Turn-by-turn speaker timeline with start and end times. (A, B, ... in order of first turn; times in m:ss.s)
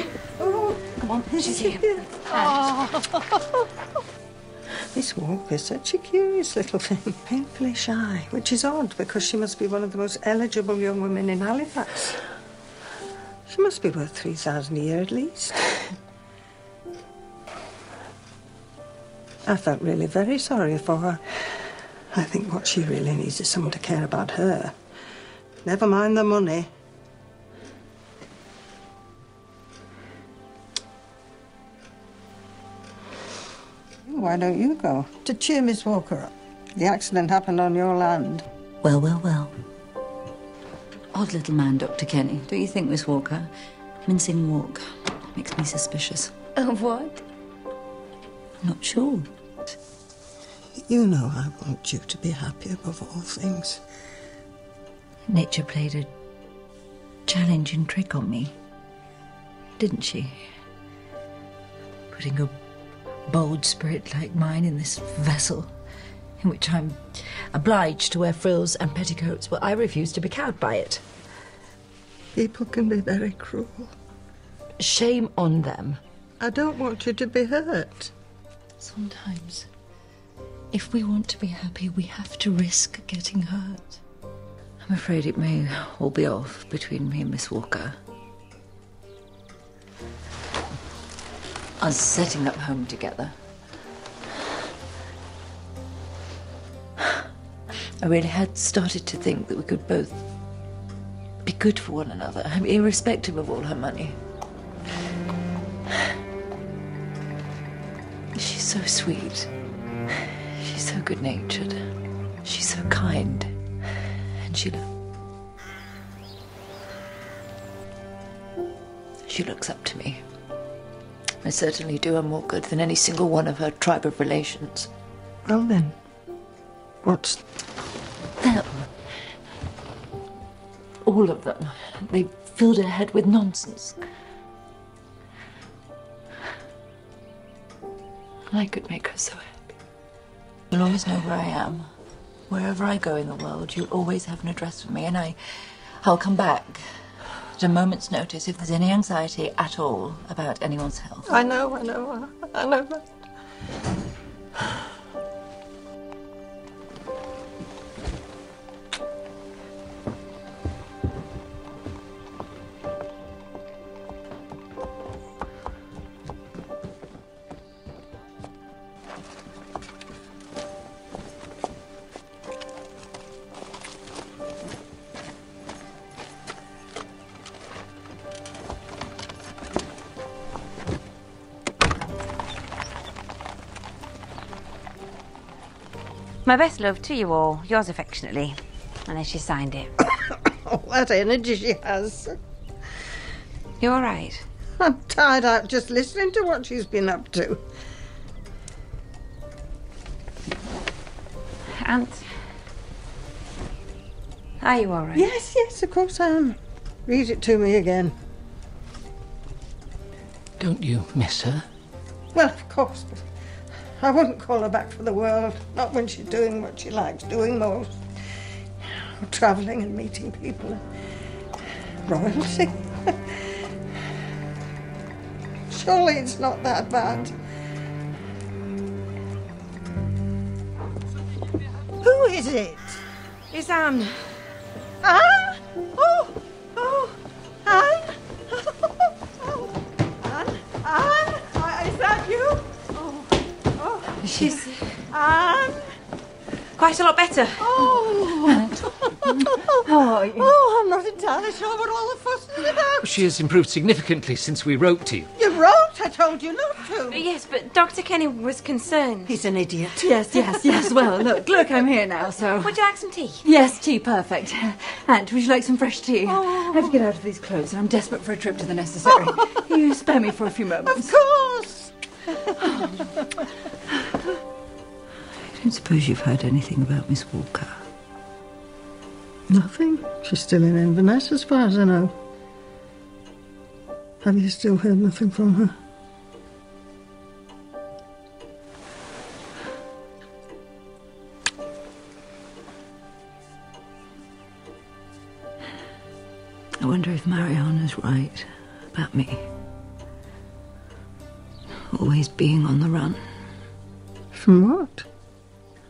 0:00.2-0:03.5 A
0:01.0-0:02.7 B
0:04.9-0:12.2 A
0:13.5-0:15.6 A
0:19.4-0:21.2 A
0:22.1-0:24.8 A
0:25.6-0:26.7 A
0:34.0-0:38.4 A
0:38.8-0:39.5 B
0:41.1-0:43.5 B
0:44.0-0:46.3 B
0:46.6-0:47.2 C
0:48.6-0:49.7 B
0:50.8-0:53.8 A
0:55.3-0:56.1 B
0:57.3-0:58.5 B
0:59.8-1:00.4 B
1:02.1-1:02.5 B
1:03.3-1:05.7 B
1:06.4-1:11.0 B
1:12.3-1:13.9 A
1:14.8-1:16.0 B
1:16.4-1:18.1 A
1:18.8-1:19.7 B
1:20.7-1:24.0 B
1:24.8-1:28.0 B
1:31.8-1:33.3 B
1:38.0-1:40.2 B
1:41.4-1:44.2 B
1:48.3-1:49.5 B
1:50.3-1:51.8 B
1:52.4-1:53.5 B
1:54.4-1:54.8 B
1:59.2-2:00.2 B
2:01.4-2:04.9 B
2:05.4-2:06.0 A
2:07.0-2:07.4 A
2:08.4-2:08.9 B
2:11.0-2:14.0 B
2:18.5-2:19.6 B
2:20.7-2:21.9 B
2:22.5-2:26.8 B
2:27.6-2:31.3 B
2:31.3-2:33.0 A
3:06.4-3:09.9 C
3:10.0-3:12.4 A
3:13.8-3:14.4 C
3:14.8-3:17.6 A
3:21.8-3:22.2 C
3:24.6-3:25.3 C
3:25.1-3:28.1 A
3:30.6-3:31.6 D
3:32.3-3:33.2 A
3:34.0-3:38.0 A
3:38.8-3:40.8 A
3:42.1-3:43.4 A
3:45.7-3:47.3 A
3:52.0-3:53.0 A
3:53.5-3:54.4 C
3:55.0-3:59.7 A
4:00.2-4:04.2 A
4:04.2-4:04.7 B
4:04.3-4:04.9 C
4:05.0-4:05.9 A
4:06.8-4:07.6 C
4:07.6-4:13.3 A
4:09.8-4:10.5 B
4:13.0-4:15.3 D
4:15.4-4:17.2 A
4:17.1-4:19.3 C
4:19.3-4:20.1 A
4:20.0-4:22.8 B
4:22.6-4:23.4 C
4:23.4-4:31.2 B
4:26.2-4:27.0 A
4:29.2-4:29.6 A
4:30.8-4:33.4 A
4:35.5-4:37.8 B
4:39.5-4:42.1 A
4:44.2-4:45.7 A
4:56.8-4:59.4 B
5:01.9-5:03.2 B
5:04.3-5:05.0 A